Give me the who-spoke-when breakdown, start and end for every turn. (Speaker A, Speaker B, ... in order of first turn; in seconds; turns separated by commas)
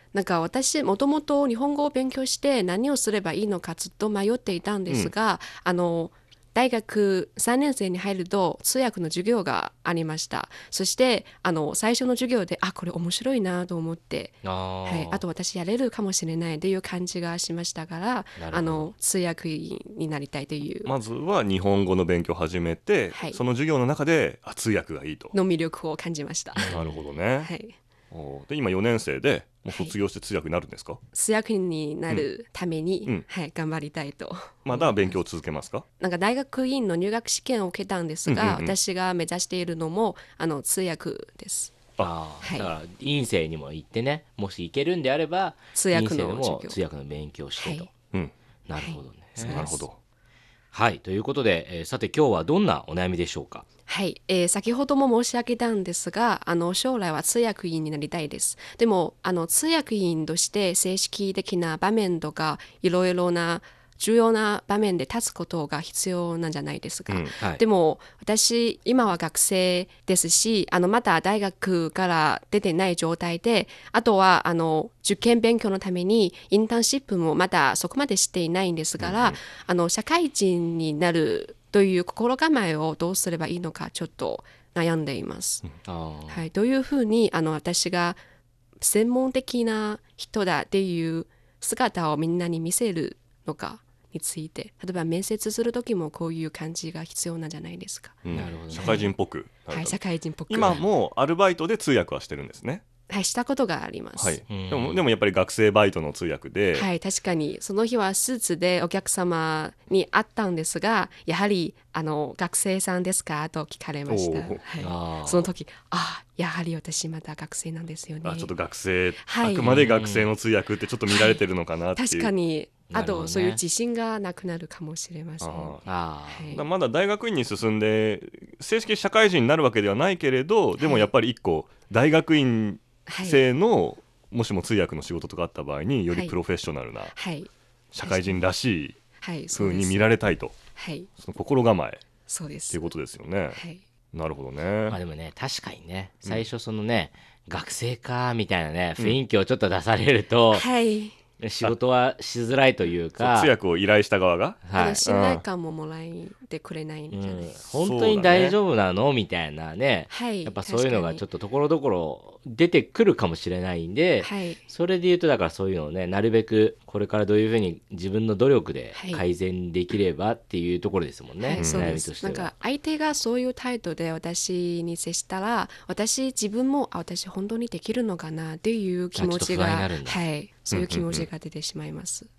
Speaker A: 0.1-20.9, Speaker B: 14.4-15.2, Speaker B: 18.4-18.9, Speaker C: 20.8-25.3, Speaker A: 23.1-23.4, Speaker A: 25.3-26.7, Speaker B: 26.6-27.0, Speaker C: 26.7-27.5, Speaker A: 27.4-27.7, Speaker C: 28.1-31.0, Speaker A: 29.7-29.9, Speaker A: 31.1-35.2, Speaker C: 34.6-35.8, Speaker A: 36.0-41.7, Speaker C: 38.2-38.8, Speaker B: 42.0-47.9, Speaker A: 42.4-42.7, Speaker A: 45.7-46.8, Speaker A: 47.6-47.9, Speaker B: 48.7-49.7, Speaker A: 48.8-49.8, Speaker C: 49.4-50.0, Speaker B: 50.7-53.6, Speaker A: 53.9-85.6, Speaker C: 79.0-79.4, Speaker B: 85.8-86.4, Speaker A: 86.3-88.2, Speaker A: 88.8-98.2, Speaker C: 98.2-100.0, Speaker B: 98.3-99.1, Speaker A: 98.7-99.1, Speaker A: 99.7-100.8, Speaker C: 100.5-102.8, Speaker A: 103.1-104.4, Speaker C: 104.2-106.9, Speaker B: 104.5-105.0, Speaker A: 106.7-118.5, Speaker C: 114.1-114.6, Speaker B: 114.8-115.5, Speaker C: 118.2-122.3, Speaker A: 119.2-119.8, Speaker B: 119.6-120.3, Speaker A: 121.1-121.4, Speaker A: 122.0-126.6, Speaker B: 122.9-123.6, Speaker C: 125.4-125.8, Speaker B: 125.8-126.5, Speaker C: 126.5-137.1, Speaker A: 130.8-131.1, Speaker A: 133.1-133.4, Speaker A: 137.1-137.5, Speaker C: 137.9-139.0, Speaker A: 138.0-138.4, Speaker A: 139.2-140.1, Speaker C: 139.5-140.5, Speaker A: 140.8-141.1, Speaker C: 141.2-142.0, Speaker A: 142.3-142.9, Speaker C: 142.7-143.6, Speaker A: 143.5-143.8, Speaker C: 144.1-145.0, Speaker B: 144.9-150.7, Speaker A: 150.5-151.1, Speaker B: 151.4-153.5, Speaker C: 153.2-155.4, Speaker B: 154.6-155.0, Speaker A: 154.7-157.5, Speaker B: 157.1-172.5, Speaker C: 157.7-158.6, Speaker A: 160.1-161.2, Speaker A: 164.2-164.6, Speaker A: 168.9-169.2, Speaker A: 171.4-182.3, Speaker C: 171.6-172.0, Speaker B: 179.2-180.2, Speaker C: 180.7-181.3